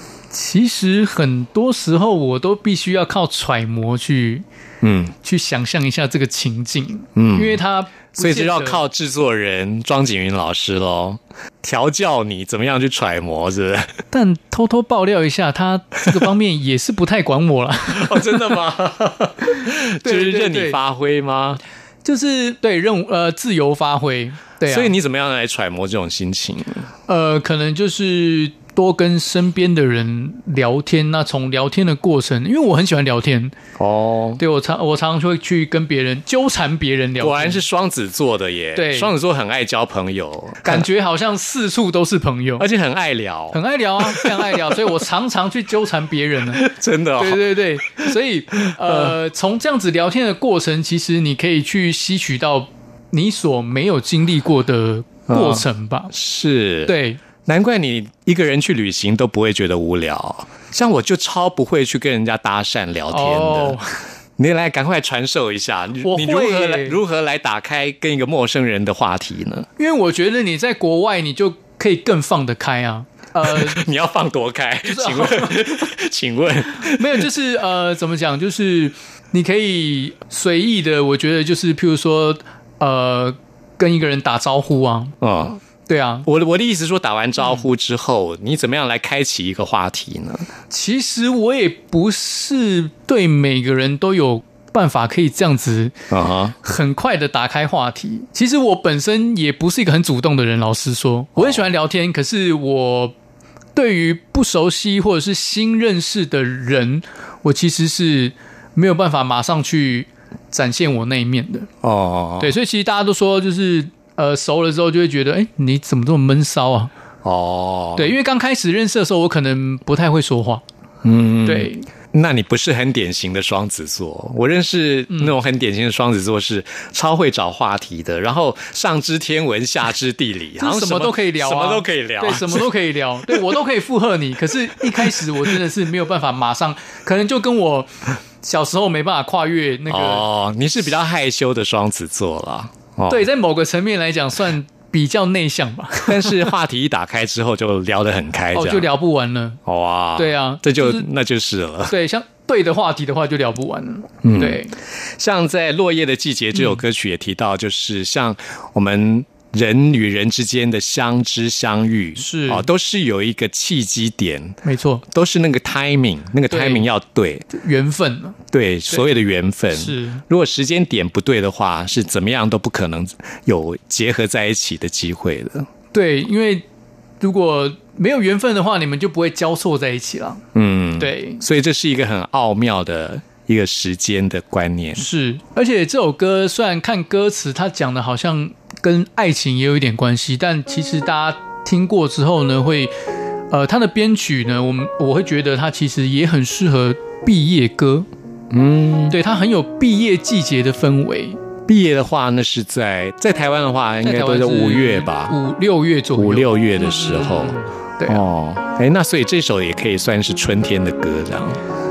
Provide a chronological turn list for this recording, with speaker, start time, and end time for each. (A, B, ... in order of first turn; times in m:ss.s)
0:00.3-0:04.4 A
0:04.8-0:05.1 B
0:05.2-0:08.8 A
0:07.2-0:07.6 B
0:08.2-0:13.9 B
0:14.1-0:18.4 A
0:17.9-0:21.6 B
0:20.0-0:20.8 A
0:22.0-0:24.9 A
0:24.7-0:26.9 B
0:27.1-0:33.5 A
0:33.8-0:34.4 B
0:34.4-0:37.6 A
0:37.2-0:40.8 B
0:38.7-0:39.1 A
0:40.6-0:42.6 A
0:42.6-0:44.7 B
0:43.5-0:56.1 A
0:46.5-0:48.1 B
0:48.6-0:49.2 B
0:55.3-1:03.8 B
0:56.8-0:57.2 A
1:03.1-1:03.9 A
1:04.4-1:09.7 B
1:06.0-1:07.0 A
1:09.8-1:13.8 A
1:13.4-1:17.2 B
1:14.8-1:15.8 A
1:16.8-1:25.1 A
1:25.2-1:25.6 B
1:25.9-1:26.3 A
1:26.2-1:30.5 B
1:30.7-1:35.9 A
1:36.1-1:36.5 B
1:36.6-1:43.1 A
1:41.4-1:41.6 B
1:43.7-1:51.7 A
1:51.8-1:52.6 B
1:52.4-1:56.9 A
1:57.2-1:58.1 B
1:58.0-2:00.6 A
2:01.0-2:12.7 B
2:01.4-2:01.9 A
2:05.1-2:05.4 A
2:10.6-2:20.2 A
2:14.8-2:15.4 B
2:19.9-2:23.3 B
2:23.1-2:26.4 A
2:26.0-2:28.9 B
2:28.5-2:29.6 A
2:29.6-2:31.9 B
2:30.2-2:31.1 A
2:31.9-2:34.8 A
2:34.2-2:47.5 B
2:36.5-2:36.8 A
2:42.2-2:42.7 A
2:44.6-2:45.0 A
2:46.5-2:46.8 A
2:47.5-2:48.4 A
2:48.5-2:55.7 B
2:49.7-2:50.2 A
2:55.9-2:56.6 A
2:57.2-3:00.4 A
3:00.5-3:05.1 B
3:01.0-3:01.4 A
3:05.0-3:12.9 A
3:13.5-3:18.1 A
3:18.5-3:19.2 B
3:19.1-3:21.4 A
3:21.7-3:25.3 B
3:24.0-3:28.2 A
3:26.2-3:31.6 B